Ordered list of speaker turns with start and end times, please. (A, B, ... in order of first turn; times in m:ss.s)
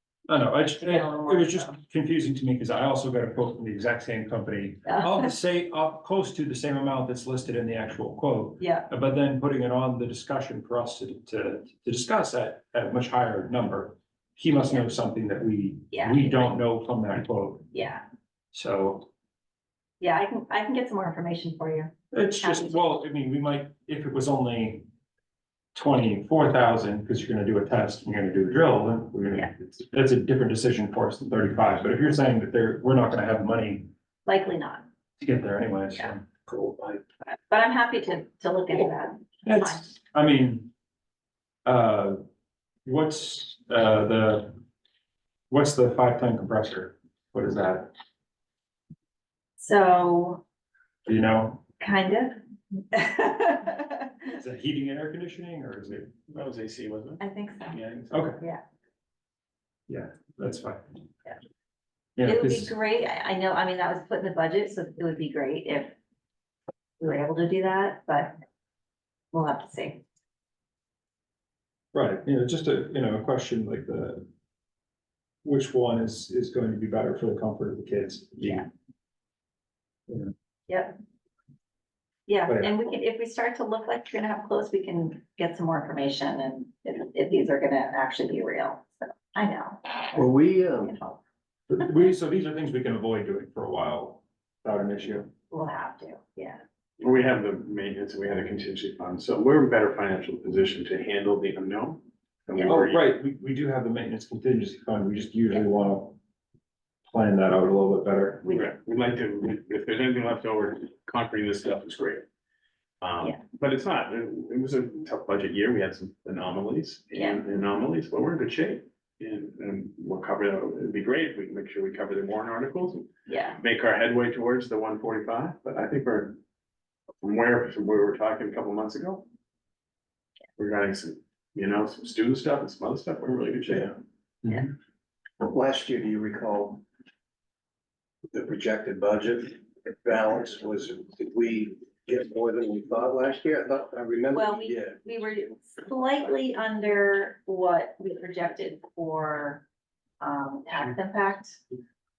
0:00.3-0:17.7 A
0:00.6-0:01.8 B
0:04.8-0:05.3 B
0:08.6-0:08.9 B
0:14.6-0:14.9 B
0:15.9-0:16.5 B
0:17.7-0:18.0 B
0:18.5-0:19.1 A
0:20.0-0:22.8 B
0:22.1-0:24.9 A
0:25.8-0:33.9 A
0:34.2-0:34.8 B
0:35.2-0:36.2 A
0:36.5-0:37.0 C
0:37.5-0:39.9 B
0:39.4-0:40.7 A
0:41.7-0:42.2 A
0:42.8-0:44.6 A
0:45.5-0:47.9 A
0:49.6-0:50.4 B
0:51.1-0:51.6 A
0:51.8-0:54.4 B
0:54.3-0:56.1 A
0:56.0-0:58.2 D
0:57.2-0:57.8 B
0:58.1-0:58.4 A
0:59.9-1:00.8 A
1:02.2-1:02.7 A
1:02.2-1:06.0 B
1:07.0-1:08.4 B
1:09.3-1:10.0 B
1:11.9-1:14.3 A
1:15.4-1:18.7 A
1:20.7-1:20.9 B
1:22.3-1:31.2 B
1:22.5-1:22.7 A
1:30.1-1:30.9 C
1:31.7-1:35.3 A
1:35.5-1:36.6 B
1:37.0-1:43.0 D
1:42.6-1:46.2 A
1:47.1-1:48.5 A
1:48.4-1:48.7 B
1:48.5-1:52.2 D
1:53.0-2:06.4 D
1:57.1-1:57.4 B
2:03.3-2:03.6 B
2:07.2-2:09.3 D
2:10.6-2:14.0 D
2:15.4-2:16.8 C
2:18.3-2:25.0 C
2:24.3-2:29.6 B
2:30.2-2:31.6 B